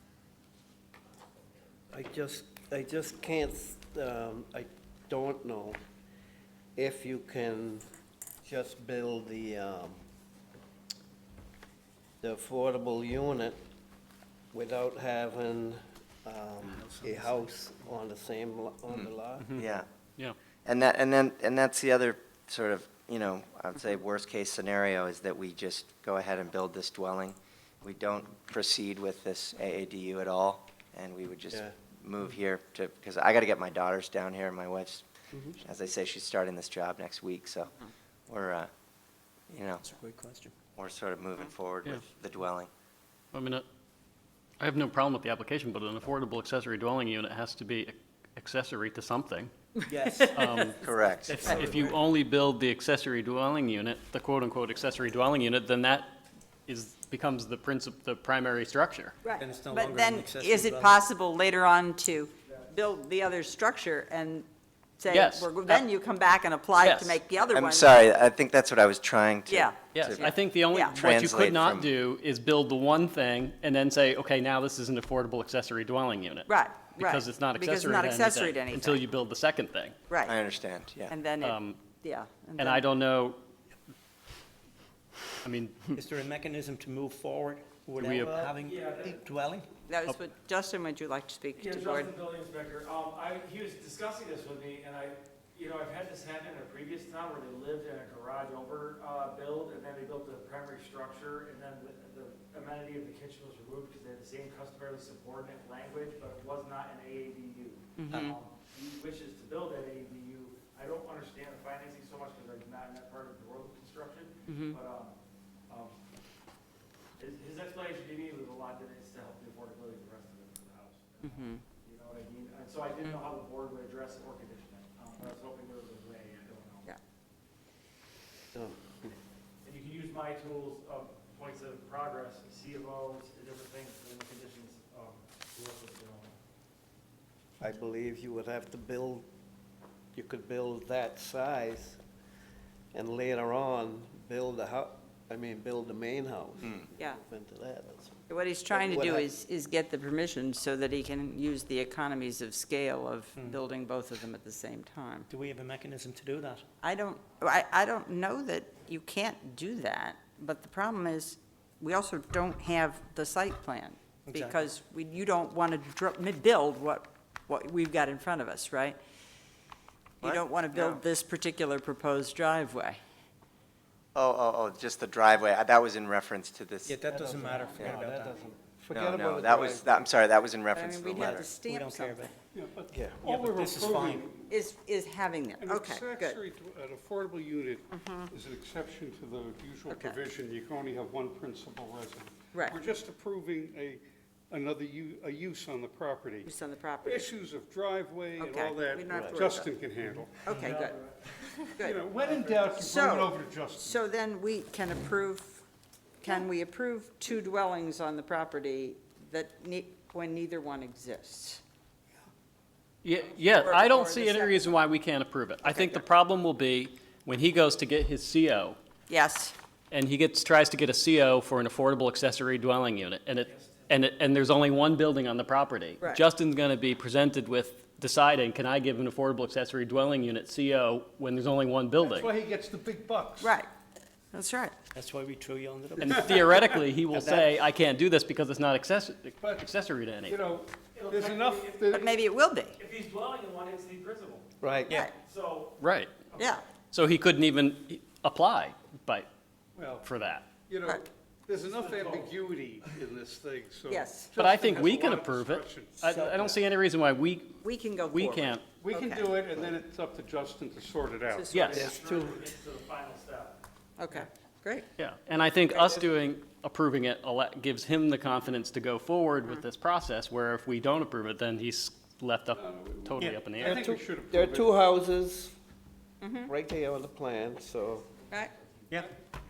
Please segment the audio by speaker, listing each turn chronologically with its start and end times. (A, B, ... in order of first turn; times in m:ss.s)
0:01.9-0:05.8 A
0:06.8-0:07.9 A
0:08.4-0:10.0 A
0:12.2-0:13.6 A
0:14.5-0:19.6 A
0:16.7-0:17.5 B
0:18.9-0:19.9 C
0:20.6-0:35.1 C
0:35.6-0:38.7 C
0:39.5-0:39.9 C
0:39.8-0:40.5 B
0:40.8-0:42.7 C
0:43.3-0:43.6 D
0:44.6-0:49.5 D
0:49.9-0:52.0 B
0:50.3-0:56.1 D
0:50.8-0:51.6 C
0:56.7-0:59.2 D
0:59.2-1:04.5 E
0:59.3-1:01.1 B
1:02.5-1:02.7 F
1:05.0-1:08.0 E
1:05.1-1:05.8 D
1:06.8-1:07.2 D
1:07.5-1:10.3 C
1:09.5-1:11.0 E
1:09.9-1:20.0 D
1:10.9-1:11.9 C
1:16.5-1:19.0 E
1:20.1-1:20.3 E
1:20.2-1:21.2 C
1:21.1-1:22.8 E
1:21.4-1:21.8 D
1:22.6-1:23.4 D
1:25.4-1:25.8 D
1:25.9-1:29.7 B
1:28.0-1:28.4 D
1:28.6-1:29.2 F
1:29.9-1:32.1 E
1:31.6-1:55.2 F
1:48.0-1:48.4 E
1:54.5-1:54.8 E
1:55.7-1:56.0 F
1:57.2-2:06.9 F
2:01.2-2:01.6 E
2:08.5-2:09.2 A
2:09.6-2:16.4 F
2:17.6-2:19.3 A
2:20.1-2:22.0 A
2:22.9-2:29.3 A
2:28.3-2:35.3 E
2:33.4-2:33.6 B
2:35.3-2:36.6 B
2:36.8-2:49.0 E
2:44.3-2:44.7 B
2:50.2-2:51.0 C
2:50.2-2:53.0 E
2:54.2-2:57.0 C
2:56.8-2:58.4 B
2:57.1-3:00.0 A
2:58.9-2:59.9 G
2:58.9-3:01.5 C
3:00.7-3:02.4 E
3:01.1-3:02.3 B
3:02.5-3:04.5 G
3:02.9-3:03.3 A
3:03.2-3:04.3 B
3:04.5-3:06.4 E
3:05.6-3:20.6 G
3:07.9-3:08.3 E
3:09.9-3:10.2 E
3:12.5-3:12.8 E
3:16.4-3:17.3 E
3:18.4-3:19.7 E
3:19.1-3:19.4 A
3:20.4-3:22.0 E
3:20.6-3:21.5 F
3:21.5-3:24.0 G
3:22.1-3:22.8 F
3:22.7-3:25.6 E
3:26.2-3:31.6 E
3:33.0-3:38.8 D
3:33.6-3:34.8 E
3:35.6-3:36.0 E
3:39.1-3:39.6 E
3:39.9-3:52.3 D
3:52.0-3:53.6 G
3:53.4-3:53.7 E
3:54.3-3:54.8 E
3:54.9-3:56.4 B
3:56.0-4:00.4 D
3:56.0-3:56.7 G
3:57.1-3:57.5 B
3:59.4-4:02.1 G
4:00.9-4:02.2 F
4:01.9-4:02.8 E
4:02.8-4:05.8 F
4:04.6-4:05.0 A
4:04.9-4:05.1 E
4:05.8-4:06.1 D
4:06.3-4:06.6 F
4:06.4-4:06.6 E
4:06.9-4:09.3 D
4:09.8-4:10.1 G
4:10.0-4:10.5 D
4:10.7-4:16.1 G
4:11.6-4:12.4 F
4:13.9-4:14.3 E
4:14.4-4:18.7 D
4:16.0-4:16.6 B
4:17.6-4:19.5 E
4:18.8-4:21.9 G
4:21.3-4:21.9 E
4:21.5-4:21.9 D
4:21.8-4:23.6 F
4:21.8-4:22.3 A
4:24.0-4:24.9 E
4:25.0-4:33.8 D
4:32.5-4:34.8 G
4:33.2-4:33.5 B
4:33.6-4:35.6 A
4:36.2-4:36.5 E
4:36.5-4:38.2 A